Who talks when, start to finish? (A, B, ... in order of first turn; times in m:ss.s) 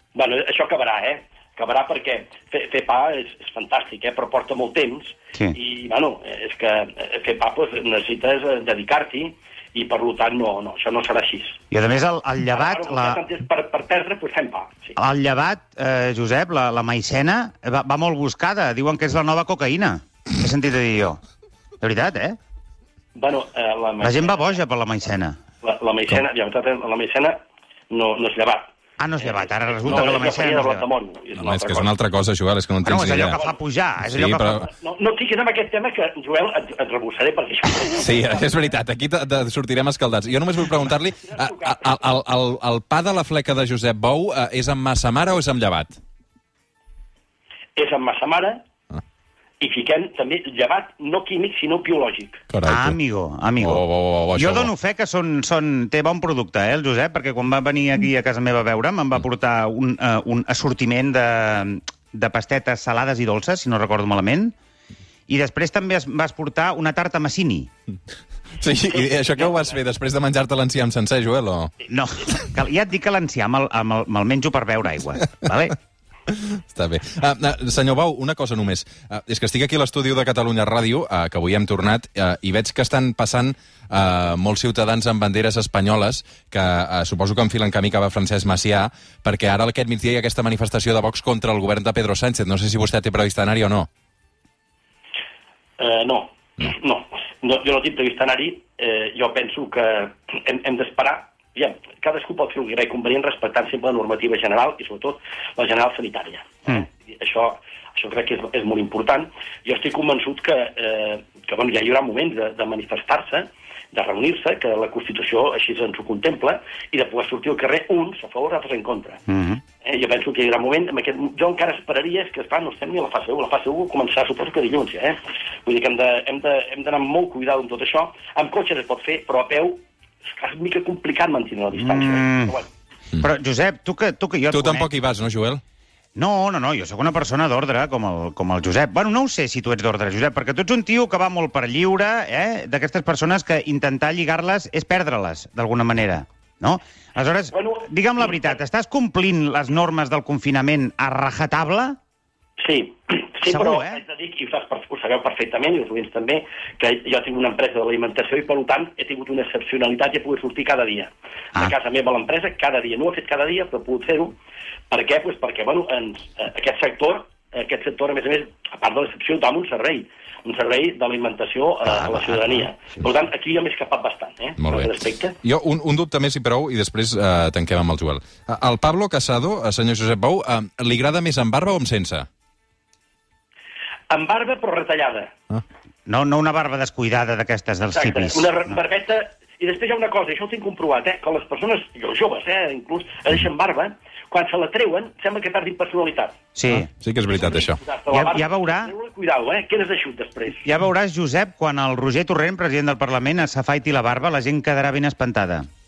0:00.1-0:11.6 A
0:11.7-0:13.2 B
0:12.5-0:15.0 A
0:15.0-0:21.2 B
0:21.8-0:22.4 B
0:23.1-0:24.6 A
0:24.0-0:25.4 B
0:25.6-0:28.7 A
0:29.0-0:30.9 B
0:29.2-0:31.9 A
0:31.4-0:33.4 C
0:32.8-0:34.7 B
0:34.0-0:34.7 C
0:34.7-0:38.2 A
0:37.9-0:45.9 C
0:41.2-0:42.0 A
0:47.8-0:48.6 A
0:49.6-0:52.4 A
0:52.5-0:53.0 C
0:52.6-1:04.5 B
0:53.6-0:54.7 C
1:05.3-1:07.7 B
1:08.6-1:11.7 C
1:09.0-1:09.8 A
1:11.9-1:15.8 B
1:16.3-1:33.9 C
1:35.8-1:59.2 A
1:59.3-1:59.6 B
1:59.8-2:12.7 A
2:11.7-2:12.6 B
2:13.2-2:14.9 B
2:14.5-2:15.6 C
2:16.2-2:32.0 B
2:27.5-2:28.5 A
2:32.6-2:44.4 A
2:33.4-2:34.0 B
2:44.9-2:55.4 A
2:51.8-2:52.6 B
2:54.6-3:02.3 C
3:04.1-3:05.3 A
3:06.1-3:08.8 B
3:07.9-3:16.4 A
3:16.5-3:16.9 B
3:16.7-3:17.8 C
3:17.3-3:20.7 A
3:18.1-3:18.9 B
3:20.6-3:25.7 B